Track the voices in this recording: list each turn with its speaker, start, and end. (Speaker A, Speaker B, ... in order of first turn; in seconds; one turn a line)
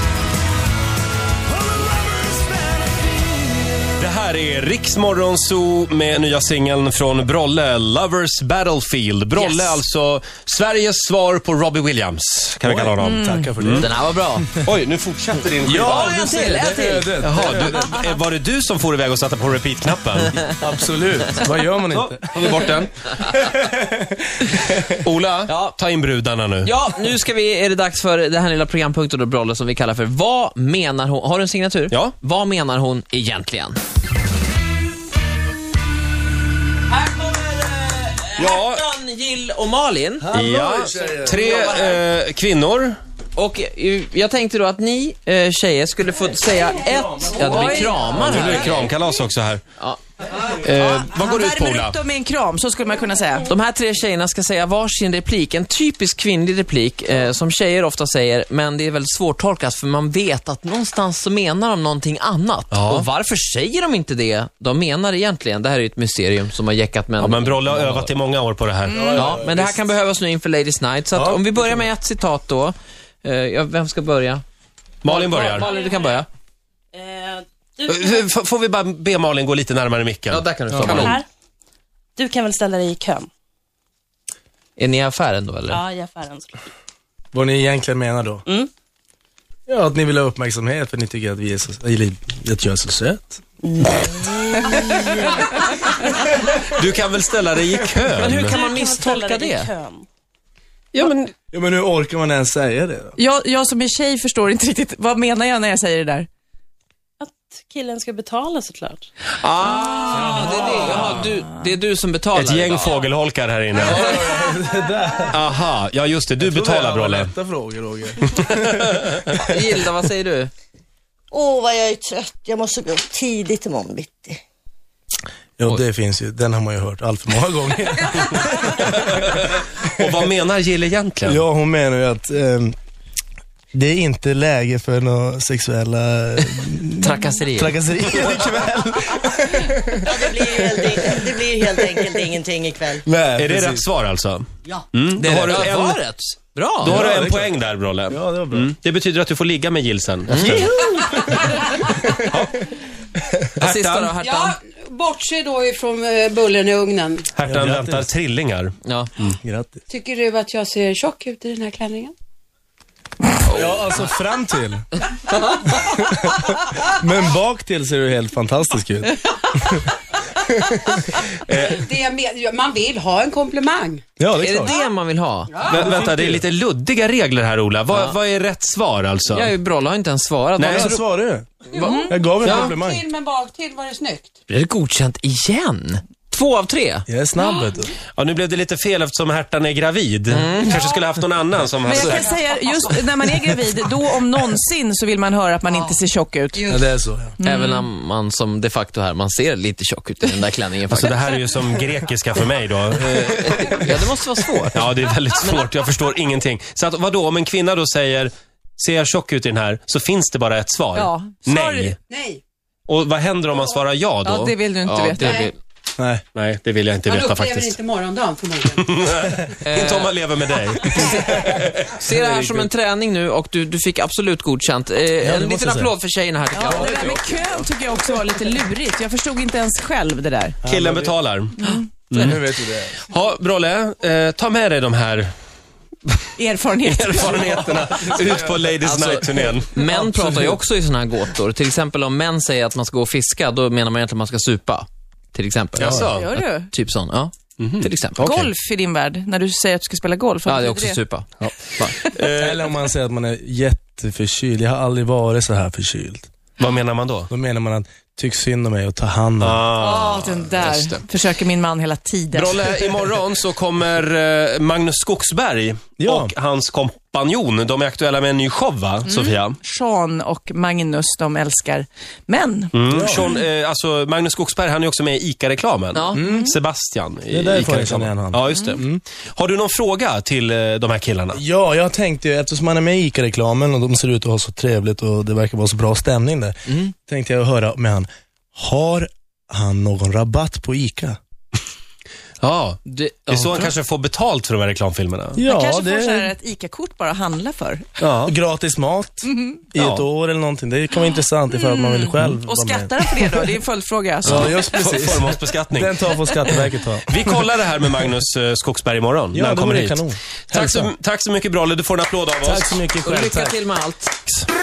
Speaker A: 1.4-4.0
Speaker B: 4.0-13.9
Speaker C: 9.3-9.8
Speaker A: 12.6-13.9
Speaker D: 13.1-13.5
Speaker C: 13.7-14.5
Speaker B: 14.6-16.1
Speaker A: 15.6-18.0
Speaker C: 15.7-17.0
Speaker D: 16.0-17.1
Speaker B: 17.2-20.4
Speaker A: 20.6-22.8
Speaker B: 21.9-23.3
Speaker A: 23.4-25.0
Speaker B: 25.0-26.7
Speaker C: 25.5-25.8
Speaker C: 26.6-33.8
Speaker C: 37.9-40.3
Speaker B: 38.4-38.8
Speaker A: 40.2-41.7
Speaker B: 40.3-43.0
Speaker C: 43.4-48.9
Speaker B: 47.5-49.6
Speaker B: 50.6-52.0
Speaker D: 50.8-53.5
Speaker C: 53.5-68.2
Speaker B: 62.7-63.1
Speaker B: 67.2-69.3
Speaker A: 68.9-69.8
Speaker C: 69.1-74.4
Speaker A: 71.1-71.9
Speaker B: 75.0-75.7
Speaker C: 75.1-76.3
Speaker E: 75.4-76.2
Speaker E: 76.9-78.3
Speaker B: 77.9-81.2
Speaker C: 80.3-81.2
Speaker A: 80.7-81.0
Speaker E: 80.9-81.3
Speaker E: 82.2-83.3
Speaker C: 84.8-85.8
Speaker E: 85.7-86.6
Speaker A: 87.3-88.5
Speaker A: 89.7-93.4
Speaker F: 94.1-95.1
Speaker D: 94.8-95.2
Speaker B: 96.7-98.6
Speaker E: 98.1-100.1
Speaker C: 98.2-99.7
Speaker B: 100.9-101.3
Speaker A: 101.5-103.2
Speaker D: 103.2-106.3
Speaker E: 107.2-109.1
Speaker B: 109.4-111.3
Speaker C: 109.9-113.0
Speaker A: 110.1-111.2
Speaker B: 112.3-114.2
Speaker A: 113.8-115.4
Speaker B: 115.3-117.3
Speaker A: 116.4-119.5
Speaker B: 118.3-119.3
Speaker C: 119.4-120.5
Speaker F: 121.3-124.4
Speaker A: 125.6-129.2
Speaker B: 129.1-131.4
Speaker A: 129.8-130.1
Speaker A: 131.2-132.8
Speaker A: 133.7-142.3
Speaker C: 137.0-137.8
Speaker F: 140.1-143.1
Speaker A: 143.0-143.9
Speaker B: 143.4-146.1
Speaker C: 145.2-147.1
Speaker B: 146.8-152.6
Speaker A: 146.8-148.7
Speaker C: 150.3-150.6
Speaker A: 151.1-152.2
Speaker B: 153.6-154.2
Speaker C: 153.6-154.6
Speaker G: 154.2-157.3
Speaker B: 157.4-159.4
Speaker A: 157.4-158.1
Speaker C: 158.8-159.1
Speaker A: 159.4-159.8
Speaker G: 159.9-162.1
Speaker C: 163.5-164.1
Speaker A: 163.5-164.9
Speaker A: 165.5-169.8
Speaker A: 170.4-171.2
Speaker B: 171.5-171.8
Speaker G: 171.5-174.0
Speaker A: 174.2-174.8
Speaker C: 174.4-175.5
Speaker G: 175.6-176.0
Speaker B: 175.7-179.6
Speaker A: 175.7-176.5
Speaker C: 177.9-178.2
Speaker C: 179.3-181.0
Speaker B: 180.6-181.0
Speaker A: 180.6-181.5
Speaker C: 181.7-182.7
Speaker G: 181.7-184.4
Speaker D: 181.8-182.1
Speaker A: 182.1-183.0
Speaker C: 184.5-187.1
Speaker A: 187.1-187.9
Speaker B: 188.2-192.3
Speaker C: 190.3-190.9
Speaker G: 191.8-193.6
Speaker D: 191.8-196.7
Speaker G: 196.6-196.8
Speaker A: 196.7-197.3
Speaker D: 197.4-197.9
Speaker C: 197.4-201.2
Speaker B: 200.9-204.0
Speaker C: 203.0-205.6
Speaker B: 204.7-212.0
Speaker D: 210.9-211.9
Speaker G: 212.1-212.4
Speaker B: 212.9-214.6
Speaker D: 214.2-215.4
Speaker C: 214.8-215.6
Speaker G: 215.2-215.5
Speaker A: 216.0-216.2
Speaker B: 216.3-217.8
Speaker G: 217.1-219.1
Speaker B: 218.7-222.6
Speaker C: 219.7-220.2
Speaker C: 220.9-221.2
Speaker C: 221.9-227.6
Speaker A: 225.2-225.9
Speaker D: 226.5-230.6
Speaker A: 230.6-231.2
Speaker B: 230.7-232.4
Speaker D: 231.6-232.0
Speaker A: 232.1-233.0
Speaker B: 233.1-235.3
Speaker D: 236.4-237.9
Speaker B: 236.8-240.6
Speaker C: 238.8-248.4
Speaker B: 245.8-246.4
Speaker D: 246.1-246.7
Speaker B: 247.6-248.5
Speaker D: 248.2-251.0
Speaker C: 250.4-252.0
Speaker B: 251.4-252.7
Speaker D: 251.9-252.2
Speaker A: 252.4-256.3
Speaker B: 256.6-257.3
Speaker A: 257.3-259.7
Speaker B: 259.4-261.1
Speaker D: 259.8-262.8
Speaker B: 262.3-269.6
Speaker A: 266.0-266.3
Speaker D: 269.0-273.4
Speaker B: 272.7-281.4
Speaker A: 272.9-273.3
Speaker C: 275.9-276.2
Speaker A: 276.1-276.5
Speaker A: 277.3-279.0
Speaker A: 281.3-291.2
Speaker C: 286.7-286.9
Speaker B: 292.4-295.4
Speaker C: 292.9-293.8
Speaker A: 295.4-296.3
Speaker D: 295.4-297.9
Speaker B: 298.0-298.3
Speaker A: 298.2-303.5
Speaker B: 299.8-300.1
Speaker D: 301.1-304.5
Speaker A: 304.2-307.5
Speaker B: 304.2-312.8
Speaker A: 309.3-310.9
Speaker A: 312.4-313.6
Speaker C: 313.0-314.1